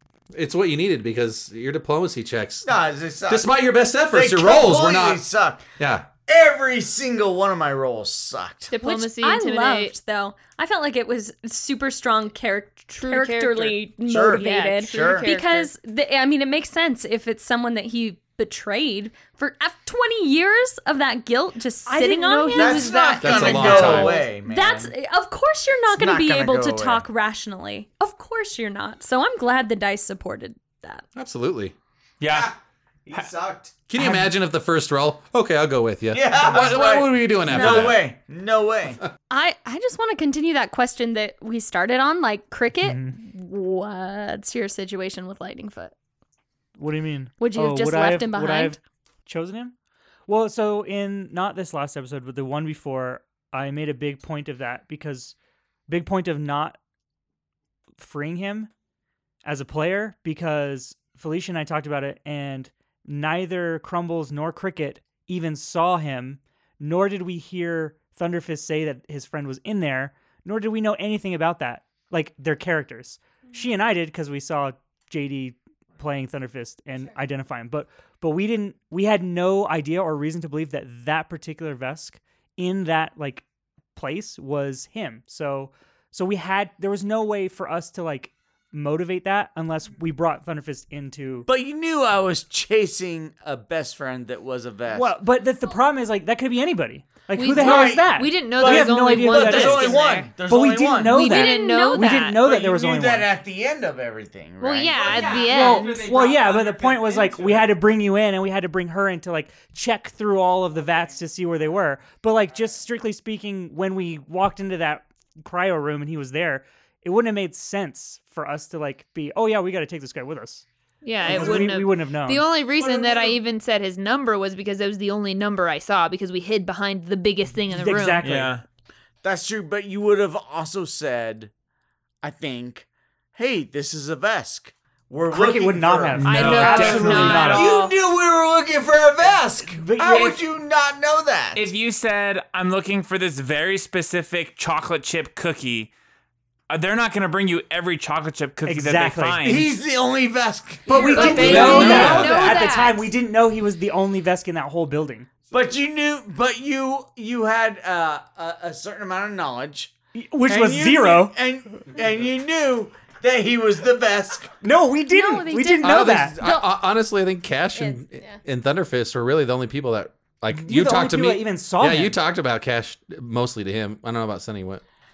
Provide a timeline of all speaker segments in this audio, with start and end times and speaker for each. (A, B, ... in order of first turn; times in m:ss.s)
0:00.3-0:02.7 A
0:02.6-0:03.5 B
0:03.3-0:05.2 A
0:04.1-0:05.6 B
0:05.8-0:06.1 A
0:06.3-0:08.7 B
0:08.7-0:09.9 C
0:08.8-0:31.0 D
0:13.0-0:15.7 C
0:14.0-0:15.3 B
0:21.9-0:24.1 C
0:22.5-0:24.9 B
0:23.2-0:24.2 A
0:25.9-0:27.0 B
0:31.2-0:31.7 A
0:32.2-0:32.5 E
0:32.3-0:32.5 B
0:33.0-0:34.2 B
0:33.9-0:38.0 A
0:36.1-0:39.0 B
0:37.5-0:38.0 D
0:39.3-0:45.9 D
0:42.8-0:43.2 F
0:46.8-0:49.7 F
0:47.4-0:48.8 D
0:50.3-0:55.3 F
0:55.9-0:56.8 F
0:58.0-0:58.7 F
0:59.4-1:23.4 F
1:24.0-1:31.5 F
1:31.5-1:35.2 B
1:34.9-1:43.3 F
1:37.4-1:40.3 C
1:37.5-1:41.2 B
1:41.1-1:42.3 D
1:41.1-1:42.4 C
1:42.4-1:46.3 B
1:44.6-1:46.0 C
1:44.9-1:47.7 E
1:45.4-2:00.6 F
2:01.0-2:08.2 C
2:01.2-2:02.5 F
2:01.2-2:01.8 B
2:02.8-2:03.4 B
2:07.7-2:08.6 F
2:08.2-2:08.6 E
2:09.2-2:11.5 B
2:12.2-2:21.7 B
2:15.2-2:17.7 F
2:16.2-2:17.8 E
2:16.2-2:17.9 C
2:19.6-2:20.4 F
2:21.5-2:25.9 E
2:26.7-2:29.7 E
2:28.6-2:29.4 F
2:29.4-2:32.4 B
2:30.9-2:35.3 F
2:30.9-2:33.1 C
2:31.1-2:32.6 E
2:31.3-2:32.3 A
2:35.5-2:39.9 B
2:40.1-2:41.3 F
2:40.5-2:44.5 B
2:44.6-2:46.4 F
2:45.1-2:46.7 D
2:45.8-2:54.8 A
2:47.7-2:48.4 D
2:50.5-2:52.2 F